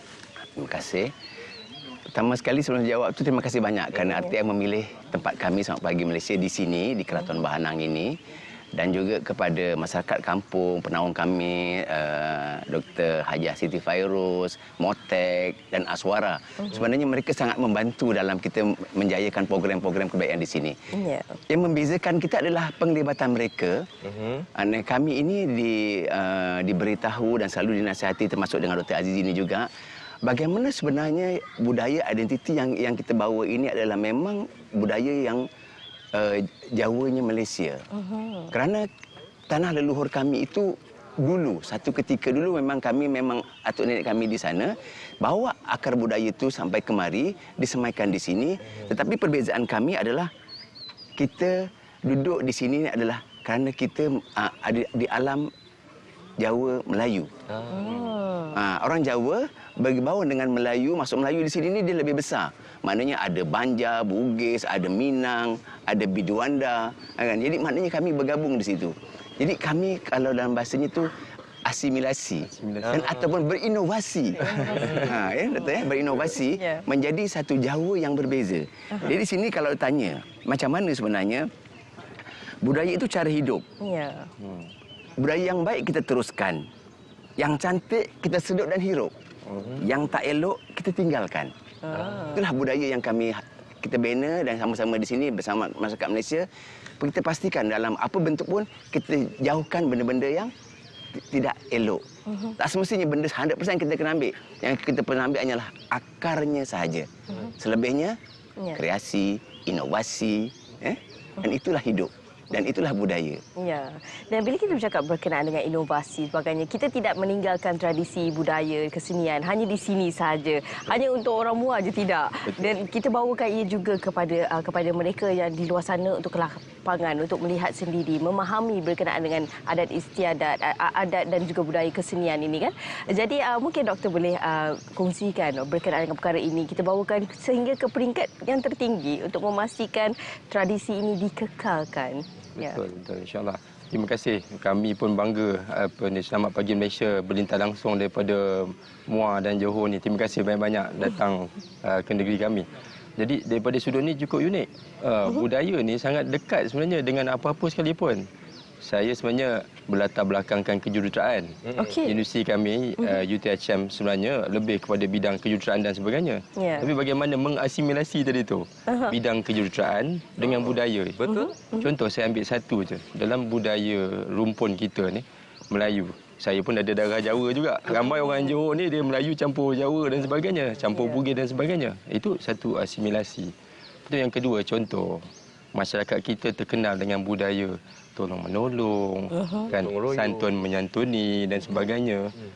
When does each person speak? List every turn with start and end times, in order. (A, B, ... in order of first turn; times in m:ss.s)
0:00.6-0:01.1 A
0:02.1-0:08.2 A
0:03.9-0:04.2 B
0:08.8-0:20.8 A
0:20.9-0:21.3 C
0:21.5-0:23.8 A
0:24.0-0:24.5 B
0:24.5-0:29.7 A
0:30.2-0:35.4 A
0:36.2-0:37.8 A
0:37.9-0:38.5 C
0:38.5-0:38.9 A
0:39.5-0:50.3 A
0:51.2-0:55.5 A
0:56.4-0:57.3 A
0:57.5-0:58.0 B
0:57.7-0:58.6 C
0:58.5-1:11.1 A
1:11.6-1:21.5 A
1:12.4-1:13.0 D
1:12.8-1:13.3 B
1:14.4-1:15.8 C
1:14.5-1:15.1 D
1:14.8-1:15.1 B
1:16.4-1:16.8 C
1:22.6-1:23.6 A
1:23.8-1:24.3 C
1:24.4-1:24.7 D
1:25.2-1:26.6 A
1:27.4-1:29.1 A
1:29.5-1:29.8 D
1:29.8-1:31.5 A
1:31.8-1:32.4 C
1:32.3-1:36.5 A
1:37.0-1:40.5 A
1:41.2-1:42.0 A
1:42.3-1:42.6 C
1:42.6-1:48.2 A
1:48.8-1:53.4 A
1:53.6-2:22.8 C
2:02.4-2:02.8 D
2:22.6-2:38.3 D
2:38.8-2:51.2 D
2:41.6-2:42.0 B
2:41.8-2:42.2 C
2:43.0-2:43.2 C
2:46.6-2:46.9 C
2:48.9-2:49.2 C
2:50.4-2:51.5 B
2:51.2-2:51.9 C
2:51.8-3:03.5 D
2:58.0-2:58.3 C
3:00.9-3:01.2 C
3:04.1-3:12.3 D
3:09.3-3:09.7 C
3:09.7-3:10.5 B